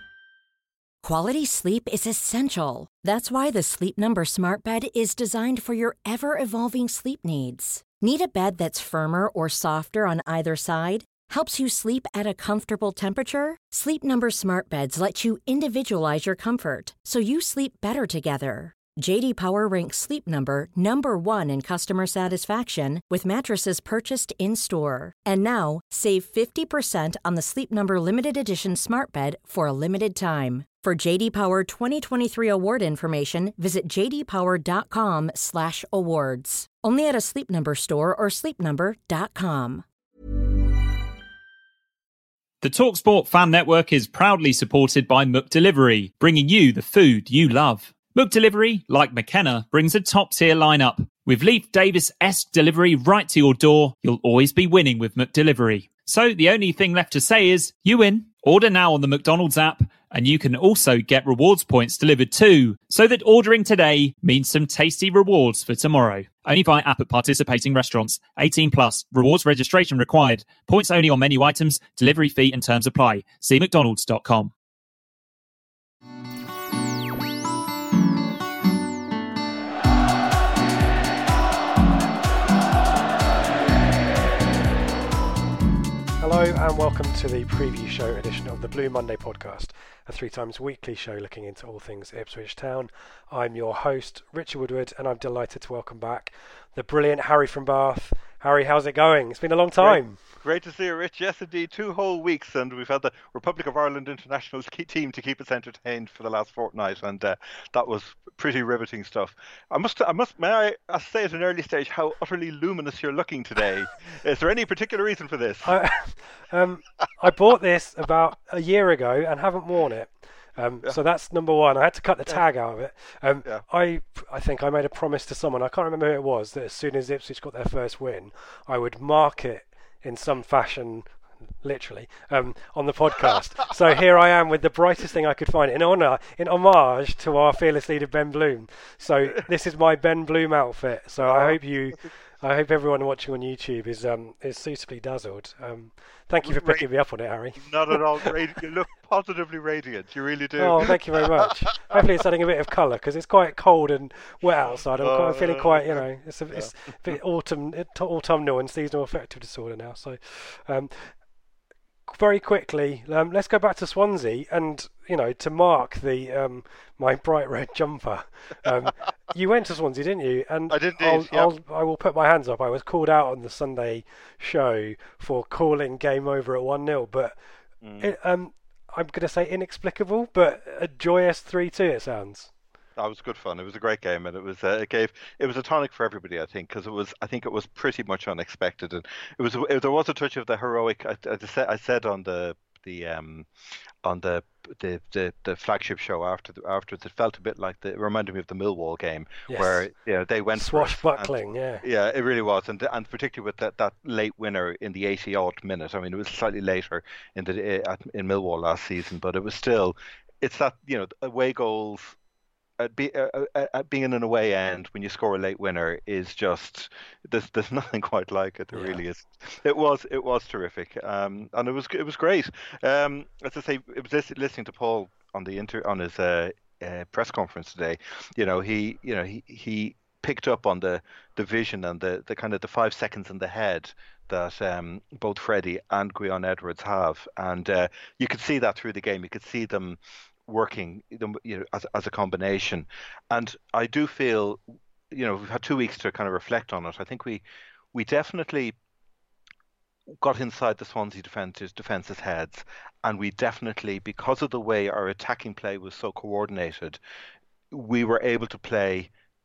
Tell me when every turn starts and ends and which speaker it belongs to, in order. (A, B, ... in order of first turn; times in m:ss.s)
0:01.0-0:39.8 A
0:42.6-1:14.5 B
1:26.2-1:40.2 C
1:39.8-1:55.8 D
1:55.6-2:11.1 C
2:11.6-2:28.3 C
2:21.2-2:22.1 D
2:26.4-2:26.8 D
2:27.6-2:32.0 D
2:30.6-2:41.1 C
2:35.0-2:36.7 D
2:42.1-2:57.4 C
2:50.7-2:51.5 D
2:57.8-2:58.1 D
2:58.0-3:02.5 C
3:03.0-3:13.5 D
3:14.0-3:32.2 D
3:19.5-3:19.8 C
3:20.5-3:21.8 C
3:32.8-4:08.8 D
3:38.7-3:39.0 C
4:10.1-4:17.0 D
4:17.7-4:19.1 D